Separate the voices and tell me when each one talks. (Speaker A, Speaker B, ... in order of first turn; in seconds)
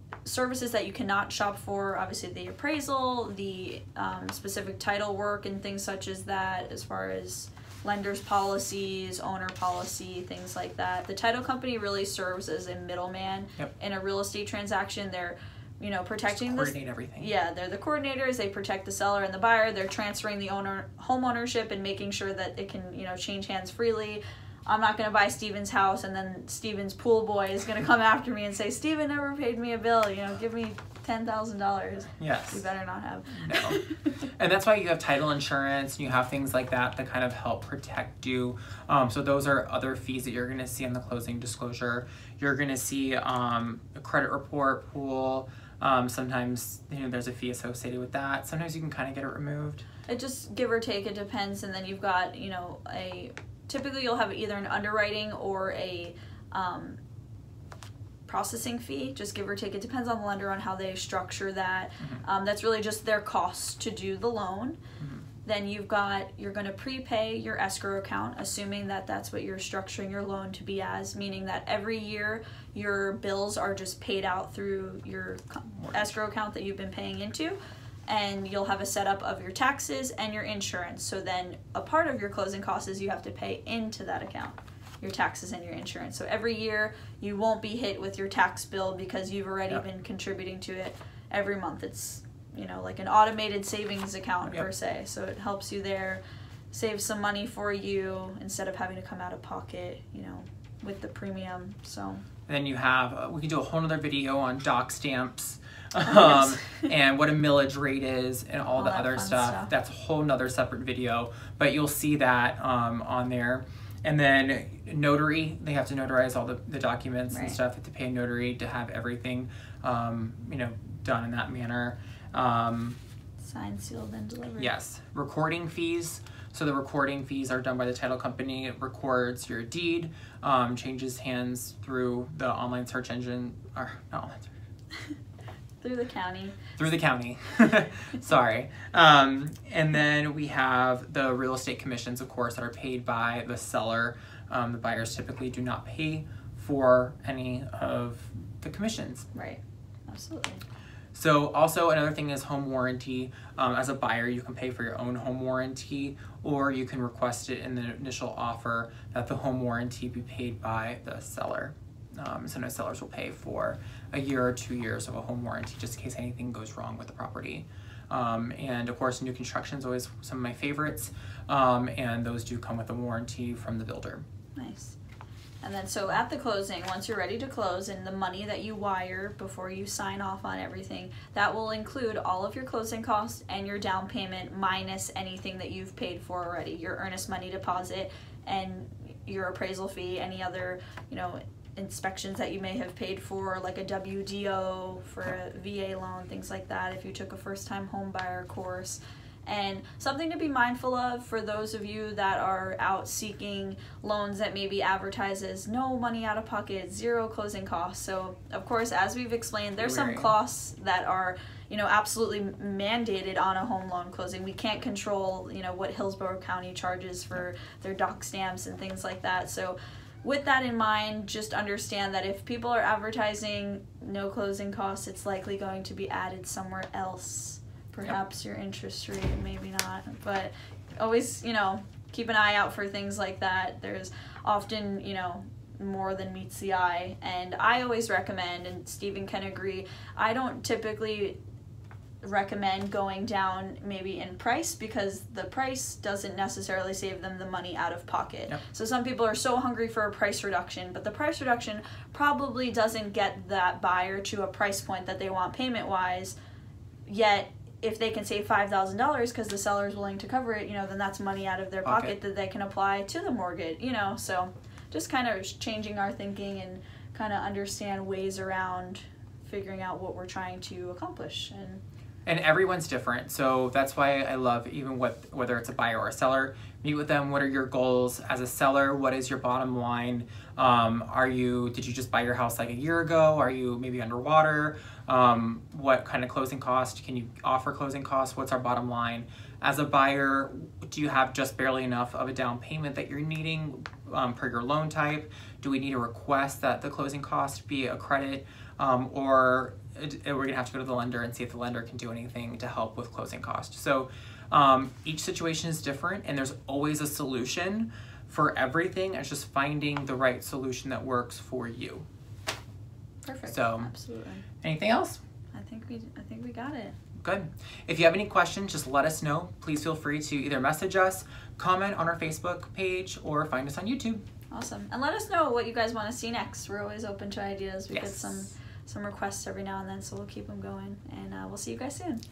Speaker A: 0.2-34.1, 50.1-57.0, 58.3-64.8, 65.4-96.2, 96.7-102.2, 106.0-106.8, 108.7-109.7, 117.3-117.6, 123.4-124.7, 135.8-136.6, 149.3-150.6, 174.6-175.0, 175.6-241.4, 242.2-256.4, 257.1-271.8, 313.2-314.4, 315.5-316.9, 324.5-332.2
Speaker B: 16.3-17.3, 32.2-32.6, 33.3-49.8, 65.0-65.2, 75.7-76.1, 102.5-123.0, 124.6-134.5, 136.8-149.3, 151.1-174.2, 209.8-210.3, 261.8-262.1, 272.2-312.0, 313.5-313.9, 314.6-315.2, 317.2-324.2, 327.9-328.5